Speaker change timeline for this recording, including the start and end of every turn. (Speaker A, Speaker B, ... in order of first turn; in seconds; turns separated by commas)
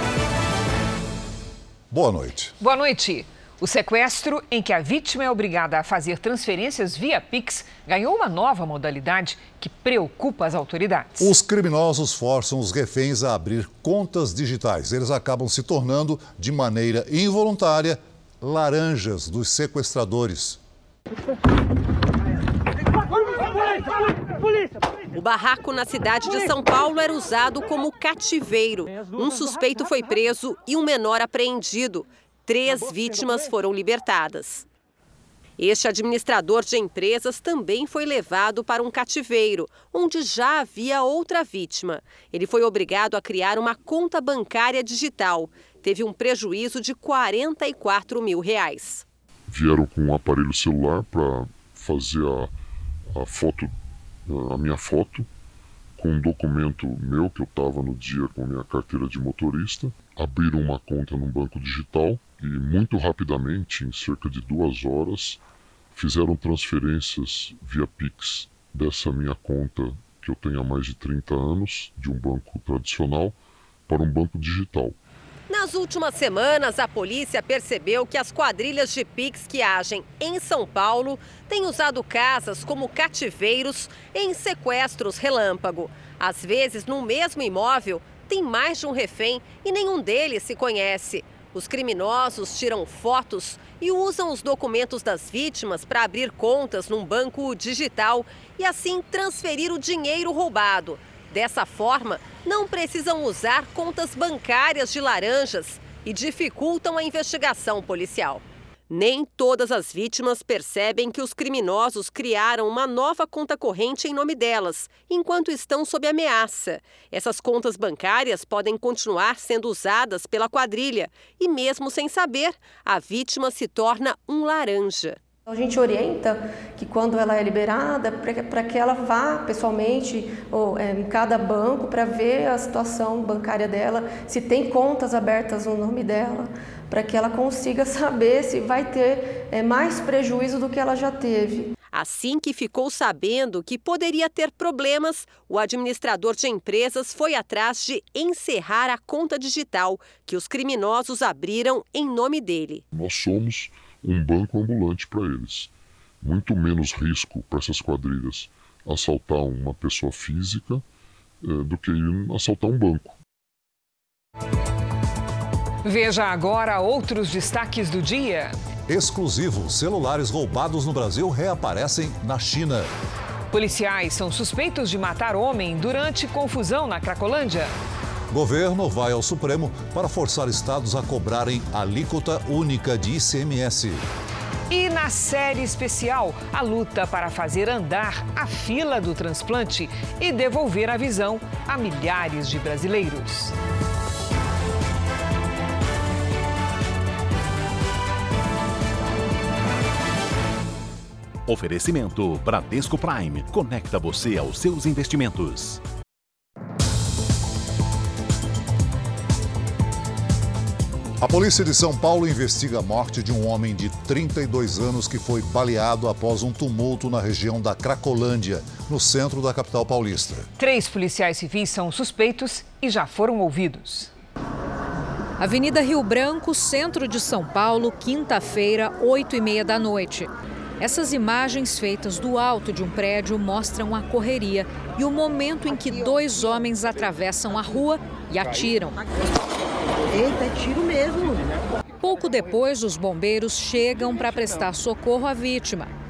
Speaker A: 1.9-2.5, Speaker B: 2.6-11.3, Speaker A: 11.2-20.6, Speaker C: 25.1-34.6, Speaker C: 35.6-49.0, Speaker D: 49.5-52.5, Speaker D: 53.1-53.8, Speaker D: 54.3-55.3, Speaker D: 56.0-65.4, Speaker D: 66.0-75.0, Speaker C: 75.5-125.2, Speaker E: 125.5-141.7, Speaker C: 141.9-152.8, Speaker D: 152.9-160.8, Speaker D: 161.4-163.1, Speaker B: 165.8-168.6, Speaker A: 168.9-172.9, Speaker B: 173.5-177.7, Speaker A: 178.3-184.0, Speaker B: 184.7-193.5, Speaker F: 201.5-205.8, Speaker A: 211.2-220.5, Speaker B: 220.6-224.1, Speaker G: 225.4-239.0, Speaker G: 242.0-245.9